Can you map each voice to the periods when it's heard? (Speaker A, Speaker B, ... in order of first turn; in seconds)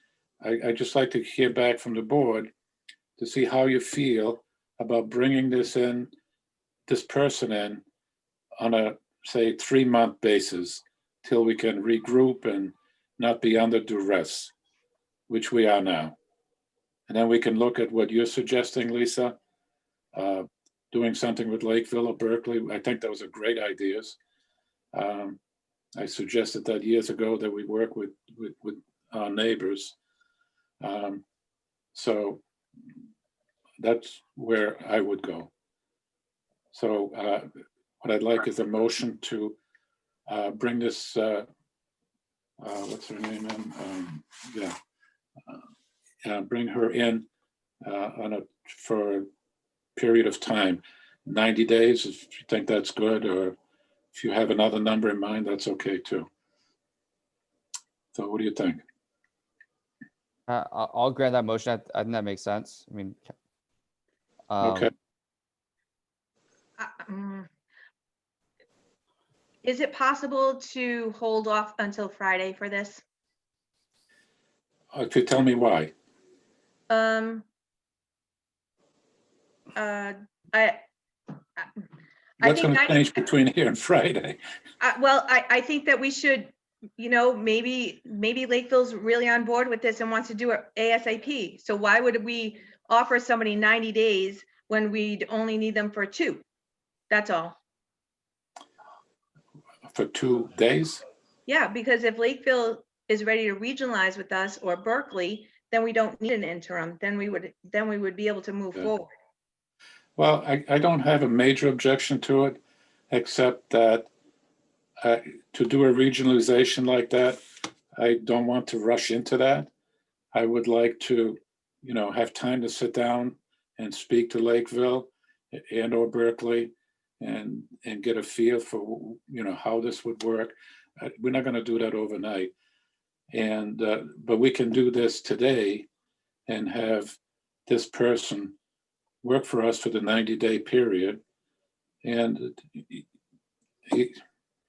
Speaker A: 0.4-2.5, 3.2-6.1, 6.9-7.8, 8.6-14.5, 15.3-16.1, 17.1-19.4, 20.1-24.2, 24.9-25.4, 25.9-29.9, 30.8-31.2, 31.9-32.4, 33.8-35.5, 36.7-37.5, 38.0-39.6, 40.3-41.5, 42.6-44.8, 46.2-47.3, 47.8-49.3, 50.0-53.6, 54.1-56.3, 58.1-58.8, 64.6-64.9, 74.9-75.9, 82.4-84.4, 99.9-101.0, 110.2-112.6, 113.1-114.1, 115.0-117.4, 117.9-119.7, 120.3-132.5, 133.3-135.9, 136.5-138.5, 139.2-141.2, 142.0-143.0, 143.9-144.2
Speaker B: 60.5-63.3, 64.5-64.9
Speaker C: 66.8-67.5, 69.6-73.0, 76.9-77.4, 79.7-80.8, 82.4-83.1, 84.8-96.4, 97.1-97.6, 101.5-109.1